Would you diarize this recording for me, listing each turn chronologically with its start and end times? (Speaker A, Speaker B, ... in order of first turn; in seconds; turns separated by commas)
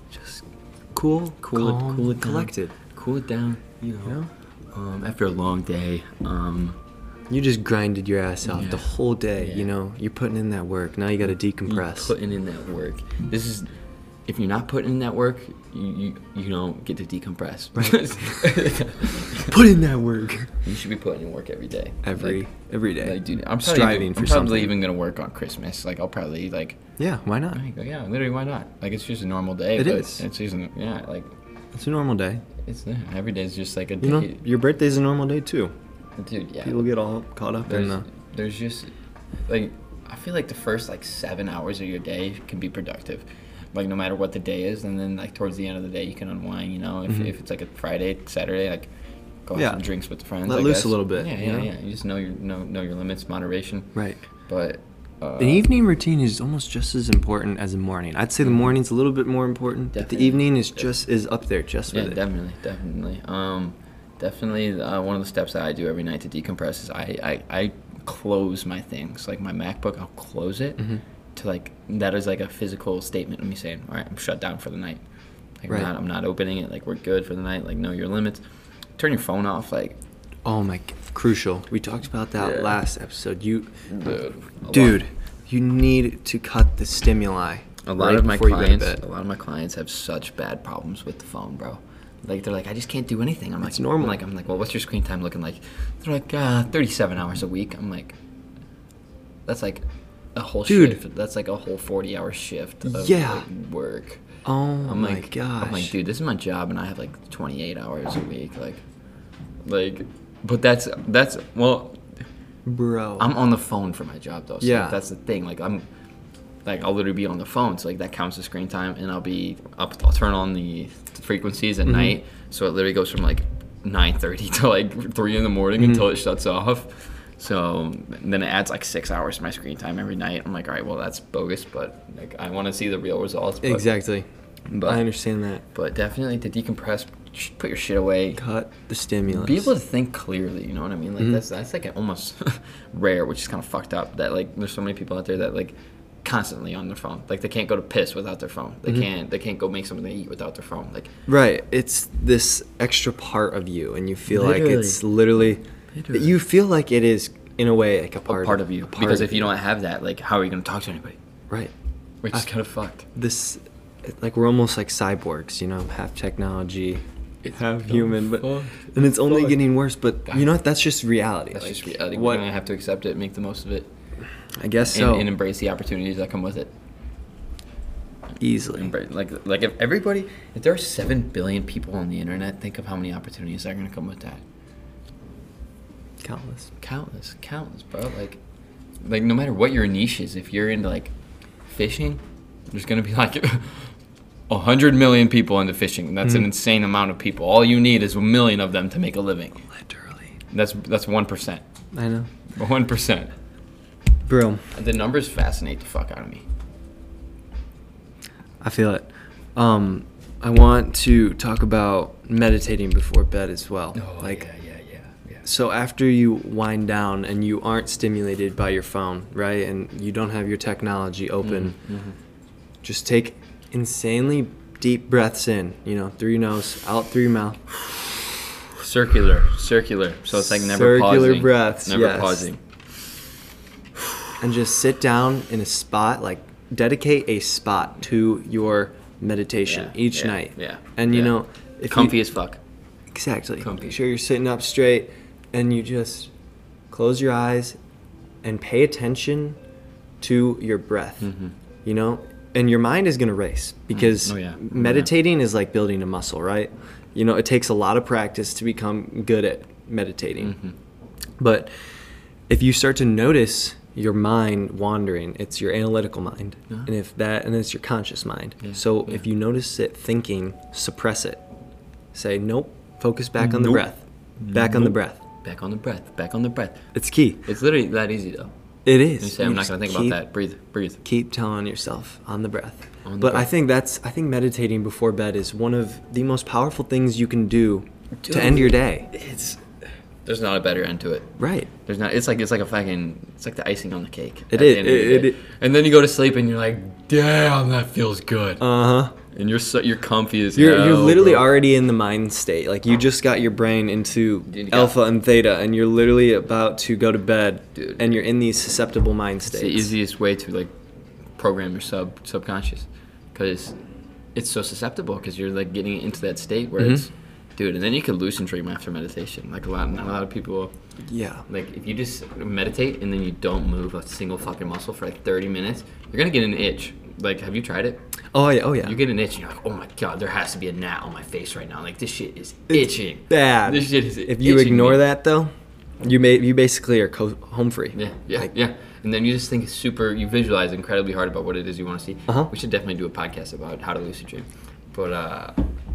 Speaker A: 0.1-0.4, Speaker A: 0.9-2.7, Speaker B: 1.4-6.8, Speaker A: 4.0-4.3, Speaker A: 7.3-12.1, Speaker B: 8.4-9.7, Speaker B: 11.7-13.7, Speaker B: 14.3-19.5, Speaker A: 17.8-18.5, Speaker A: 19.3-20.6, Speaker B: 20.6-22.4, Speaker A: 22.0-24.7, Speaker B: 23.0-26.8, Speaker A: 27.0-27.6, Speaker B: 27.5-31.3, Speaker A: 29.8-30.2, Speaker A: 31.7-32.4, Speaker B: 32.6-34.4, Speaker A: 34.0-35.7, Speaker B: 36.2-36.9, Speaker A: 36.6-38.0, Speaker B: 37.7-38.9, Speaker B: 39.5-48.9, Speaker B: 49.4-53.9, Speaker A: 49.5-49.8, Speaker A: 50.5-51.7, Speaker B: 54.5-55.7, Speaker A: 55.4-62.2, Speaker B: 58.4-58.7, Speaker B: 59.9-60.9, Speaker B: 61.9-75.0, Speaker B: 75.6-78.4, Speaker B: 79.0-80.0, Speaker A: 80.4-83.7, Speaker B: 82.4-82.8, Speaker B: 83.9-85.0, Speaker A: 84.7-89.0, Speaker B: 87.8-98.2, Speaker A: 93.6-94.2, Speaker B: 99.5-99.8, Speaker B: 100.3-104.2, Speaker A: 100.7-101.0, Speaker A: 102.8-103.5, Speaker A: 104.4-105.9, Speaker B: 104.8-108.8, Speaker B: 109.6-112.0, Speaker A: 112.7-113.3, Speaker B: 113.2-115.8, Speaker A: 114.6-115.0, Speaker B: 116.6-133.9, Speaker A: 121.8-122.2, Speaker A: 125.8-126.0, Speaker A: 133.6-135.6, Speaker B: 134.7-135.1, Speaker B: 135.7-138.4, Speaker A: 138.4-139.7, Speaker B: 139.3-151.1, Speaker A: 151.3-155.6, Speaker B: 154.3-155.3, Speaker B: 155.9-156.4, Speaker A: 156.1-159.5, Speaker B: 158.2-161.2, Speaker B: 162.2-163.1, Speaker A: 163.1-172.4, Speaker B: 167.4-169.6, Speaker B: 171.5-173.9, Speaker A: 174.6-175.3, Speaker B: 174.9-176.7, Speaker A: 178.4-178.9, Speaker B: 178.7-184.4, Speaker A: 186.2-186.7, Speaker B: 186.8-188.4, Speaker B: 189.0-191.1, Speaker B: 191.7-193.9, Speaker B: 194.5-199.7, Speaker A: 199.7-200.3, Speaker B: 200.5-201.6, Speaker A: 201.9-202.3, Speaker B: 202.5-203.3, Speaker A: 204.2-204.6, Speaker B: 204.7-206.4, Speaker A: 208.6-214.5, Speaker B: 213.9-215.4, Speaker A: 215.4-221.8, Speaker B: 221.4-222.2, Speaker A: 222.8-227.6, Speaker B: 228.5-232.6, Speaker A: 230.3-232.5, Speaker A: 234.4-242.2, Speaker B: 239.6-241.4, Speaker B: 241.9-242.6, Speaker A: 243.1-246.3, Speaker B: 243.6-244.0, Speaker A: 246.9-247.8, Speaker A: 248.4-249.6, Speaker A: 250.2-251.3, Speaker B: 251.2-251.5, Speaker A: 251.8-260.5, Speaker B: 253.9-255.1, Speaker B: 260.4-260.7, Speaker A: 261.4-261.7, Speaker A: 262.5-271.4, Speaker B: 268.6-269.2, Speaker A: 272.1-275.2, Speaker B: 273.4-273.8, Speaker B: 274.4-276.8, Speaker A: 276.9-277.4, Speaker B: 277.4-278.5, Speaker A: 278.9-280.2, Speaker B: 279.2-281.0, Speaker A: 281.0-289.1, Speaker B: 283.0-283.5, Speaker B: 288.2-289.6, Speaker B: 290.2-291.3, Speaker A: 291.4-291.7, Speaker B: 291.8-298.6, Speaker A: 294.5-295.4, Speaker A: 298.6-299.1, Speaker B: 299.3-301.5, Speaker A: 300.6-309.9, Speaker B: 304.5-305.0, Speaker B: 307.7-308.1, Speaker B: 309.5-310.7, Speaker B: 311.4-313.8, Speaker B: 314.3-320.7, Speaker A: 321.1-321.4, Speaker B: 321.5-328.0, Speaker A: 328.3-329.0, Speaker B: 328.8-335.1, Speaker A: 332.7-335.5, Speaker A: 336.0-338.5, Speaker B: 337.9-345.6